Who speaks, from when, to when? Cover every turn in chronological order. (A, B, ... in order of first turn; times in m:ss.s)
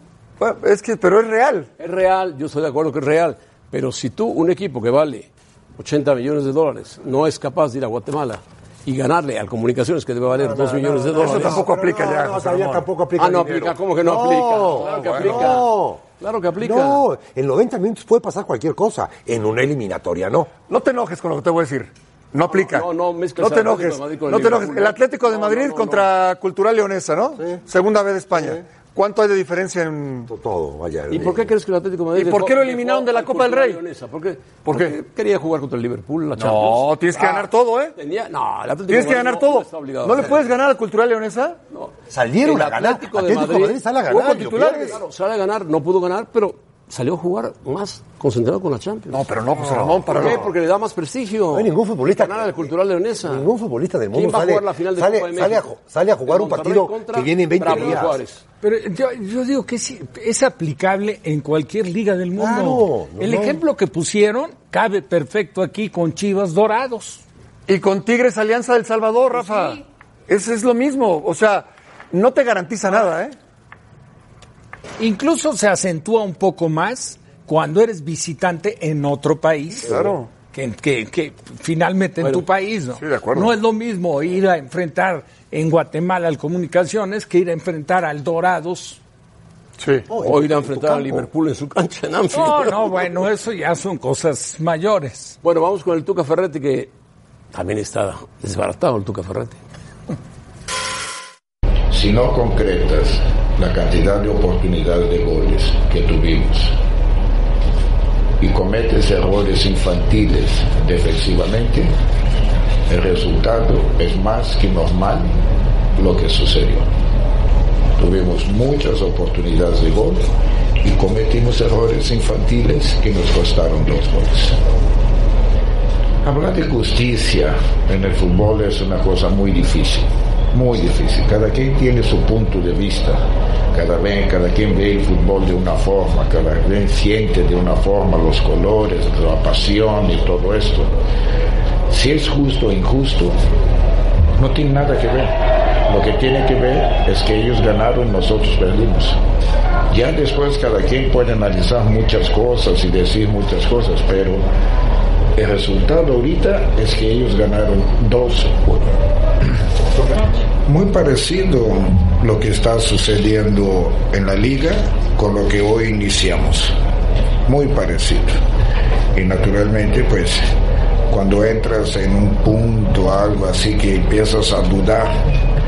0:00.4-0:01.7 A
0:01.8-0:11.6 B
0:10.3-0:16.0 C
0:11.2-0:12.9 A
0:13.2-0:17.0 B
0:14.8-0:15.6 A
0:16.6-0:20.5 C
0:20.7-0:30.3 A
0:22.5-0:26.1 B
0:28.3-0:28.6 C
0:30.3-0:31.5 C
0:31.1-0:37.4 B
0:32.1-0:33.8 A
0:34.6-0:35.0 A
0:36.4-0:38.0 A
0:38.0-0:40.4 B
0:38.9-0:41.6 A
0:41.7-0:49.2 B
0:42.1-0:45.0 C
0:44.1-0:45.0 A
0:49.1-0:50.5 A
0:49.6-0:50.4 C
0:50.1-0:53.5 B
0:51.5-0:58.2 C
0:54.1-0:55.7 B
0:56.2-0:58.4 B
0:57.7-0:58.0 D
0:58.6-1:07.2 D
1:02.4-1:03.6 C
1:07.7-1:13.4 A
1:15.0-1:29.0 D
1:19.8-1:20.3 A
1:23.0-1:23.6 A
1:29.8-1:30.1 A
1:30.1-1:31.3 C
1:30.2-1:33.0 B
1:32.3-1:35.4 D
1:35.4-1:36.9 B
1:37.5-1:39.6 B
1:41.9-1:46.7 E
1:48.4-1:51.9 E
1:52.9-1:55.3 E
1:56.0-1:56.9 E
1:58.0-2:00.2 E
2:00.8-2:04.6 E
2:06.2-2:13.2 E
2:13.7-2:20.9 E
2:21.9-2:23.4 E
2:24.4-2:25.4 E
2:25.9-2:29.2 E
2:29.9-2:34.4 E
2:35.4-2:46.8 E
2:47.5-2:48.4 E
2:49.1-2:50.5 E
2:51.1-2:55.3 E